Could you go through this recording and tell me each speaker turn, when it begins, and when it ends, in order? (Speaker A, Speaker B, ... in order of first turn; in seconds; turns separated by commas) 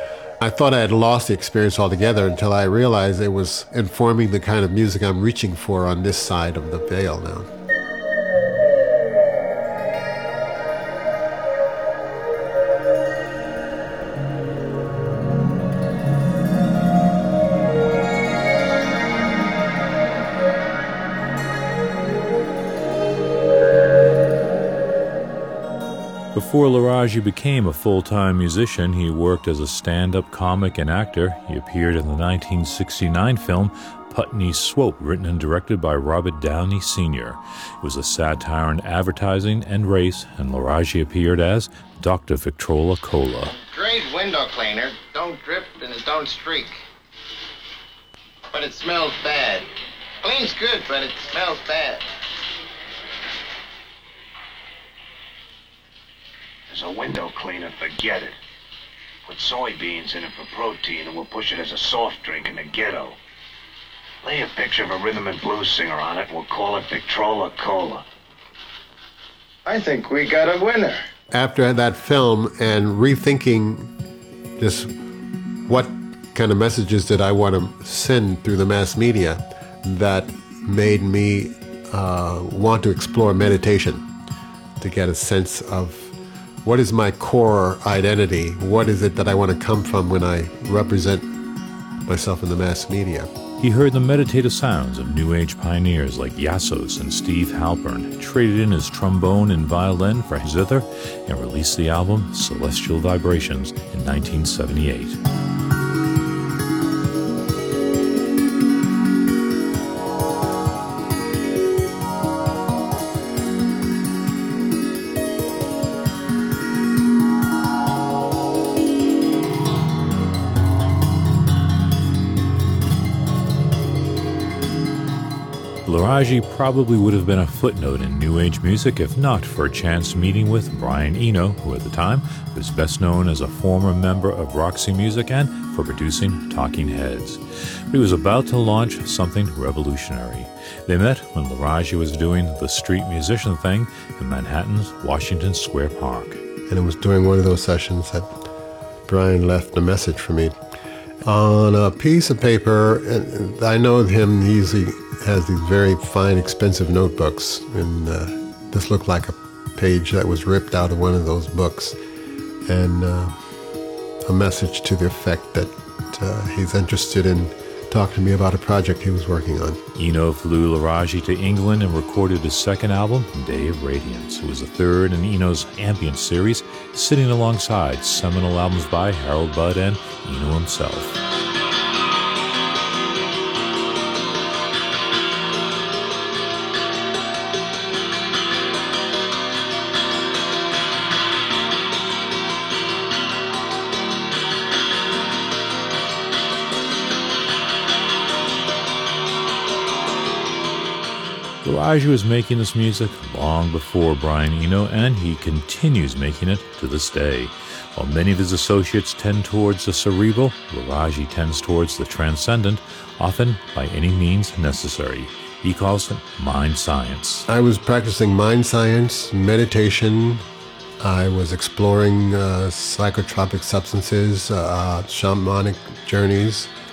Speaker A: 0.4-7.5, Speaker B: 26.3-43.5, Speaker C: 43.5-46.8, Speaker C: 48.5-49.7, Speaker C: 50.2-52.1, Speaker D: 56.7-58.4, Speaker D: 59.3-63.2, Speaker D: 64.2-68.0, Speaker C: 69.7-71.0, Speaker A: 71.3-73.9, Speaker A: 74.6-74.9, Speaker A: 75.7-84.0, Speaker A: 84.8-91.3, Speaker A: 92.1-93.3, Speaker B: 93.6-105.2, Speaker B: 125.8-146.4, Speaker A: 146.7-148.3, Speaker A: 149.1-150.6, Speaker A: 151.2-162.0, Speaker A: 162.7-163.4, Speaker A: 164.3-169.8, Speaker B: 170.0-181.2, Speaker B: 201.6-217.5, Speaker A: 217.5-220.4, Speaker A: 221.0-226.7